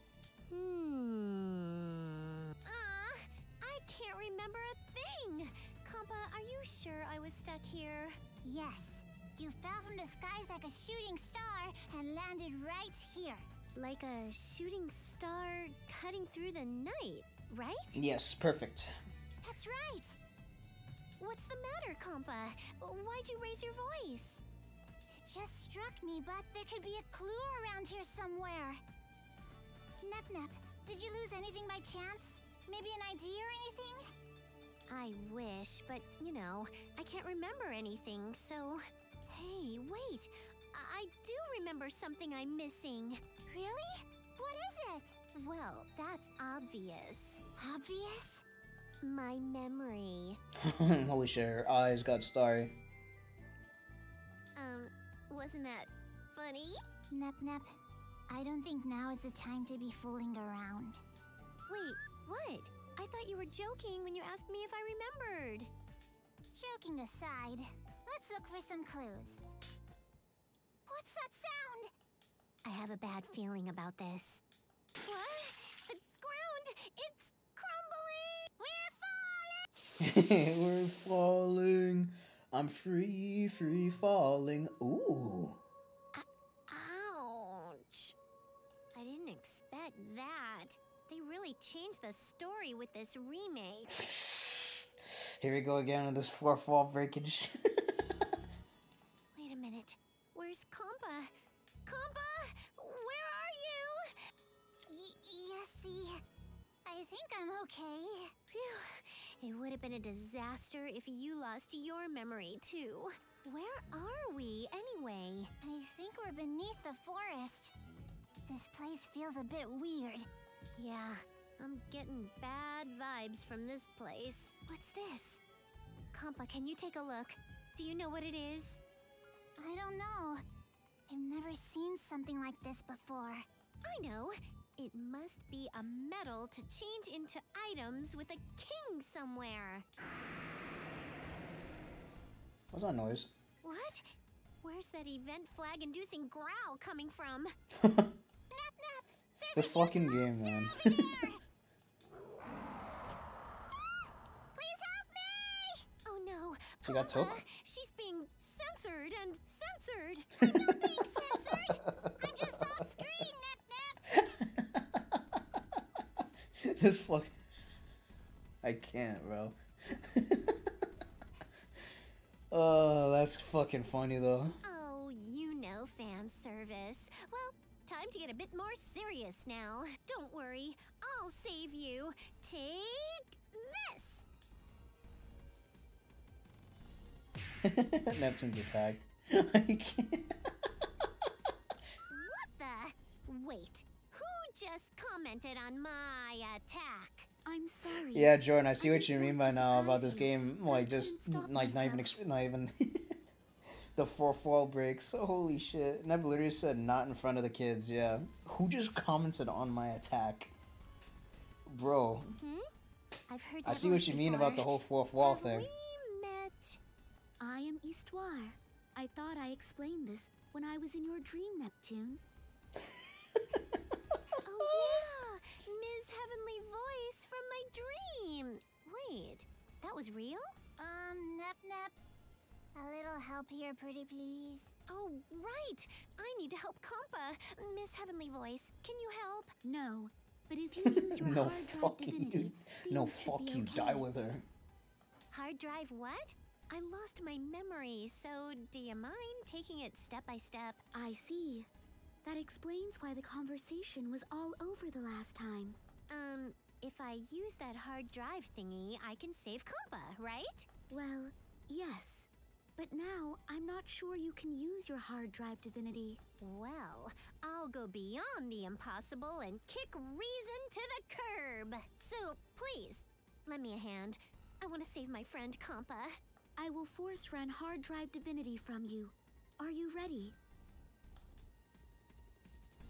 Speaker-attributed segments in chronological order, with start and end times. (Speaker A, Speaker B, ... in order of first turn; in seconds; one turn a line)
Speaker A: 0.5-2.0
Speaker A: 2.6-8.2
Speaker B: 8.4-13.4
Speaker A: 13.7-18.0
Speaker C: 17.9-18.9
Speaker B: 19.4-20.2
Speaker A: 21.2-24.4
Speaker B: 25.1-28.8
Speaker B: 30.0-34.1
Speaker A: 34.9-43.2
Speaker B: 43.5-45.2
Speaker A: 45.2-47.4
Speaker B: 47.6-48.4
Speaker A: 49.0-50.4
Speaker C: 50.6-52.7
Speaker A: 54.5-56.8
Speaker B: 57.1-57.7
Speaker B: 58.3-61.0
Speaker A: 61.7-65.7
Speaker B: 66.5-69.4
Speaker B: 70.9-71.9
Speaker A: 72.6-74.4
Speaker A: 75.0-79.6
Speaker B: 78.6-79.1
Speaker C: 80.0-85.6
Speaker A: 86.1-88.1
Speaker A: 88.9-94.0
Speaker C: 93.9-94.8
Speaker C: 95.4-97.5
Speaker A: 99.3-101.3
Speaker A: 101.8-104.1
Speaker B: 104.9-106.2
Speaker B: 106.8-108.3
Speaker A: 108.5-115.5
Speaker B: 115.6-117.7
Speaker B: 118.5-120.3
Speaker A: 120.8-125.4
Speaker A: 126.1-128.8
Speaker B: 129.6-130.4
Speaker B: 131.1-133.4
Speaker A: 133.8-139.8
Speaker C: 142.7-143.3
Speaker A: 143.6-147.5
Speaker C: 147.8-148.1
Speaker B: 148.5-151.4
Speaker C: 149.5-151.2
Speaker A: 149.5-150.1
Speaker A: 154.6-160.3
Speaker B: 154.6-155.2
Speaker C: 156.8-157.4
Speaker C: 160.4-160.9
Speaker B: 160.4-164.0
Speaker A: 161.0-161.8
Speaker C: 161.8-162.9
Speaker C: 164.1-165.2
Speaker C: 166.6-167.3
Speaker C: 168.6-170.6
Speaker C: 172.5-174.6
Speaker A: 174.6-184.2
Speaker C: 187.6-190.3
Speaker A: 192.1-197.3
Speaker D: 197.4-202.1
Speaker C: 198.1-203.1
Speaker C: 203.9-210.5
Speaker C: 211.7-212.3
Speaker A: 212.3-212.7
Speaker A: 213.3-216.8
Speaker C: 213.6-215.7
Speaker D: 217.4-222.2
Speaker A: 224.4-230.5
Speaker B: 230.8-231.9
Speaker B: 232.7-234.7
Speaker A: 234.9-239.5
Speaker D: 239.6-244.0
Speaker C: 240.8-244.4
Speaker A: 245.3-250.8
Speaker D: 250.9-251.7
Speaker D: 252.2-255.8
Speaker A: 256.1-260.7
Speaker D: 260.9-266.2
Speaker A: 266.4-276.1
Speaker D: 276.6-280.4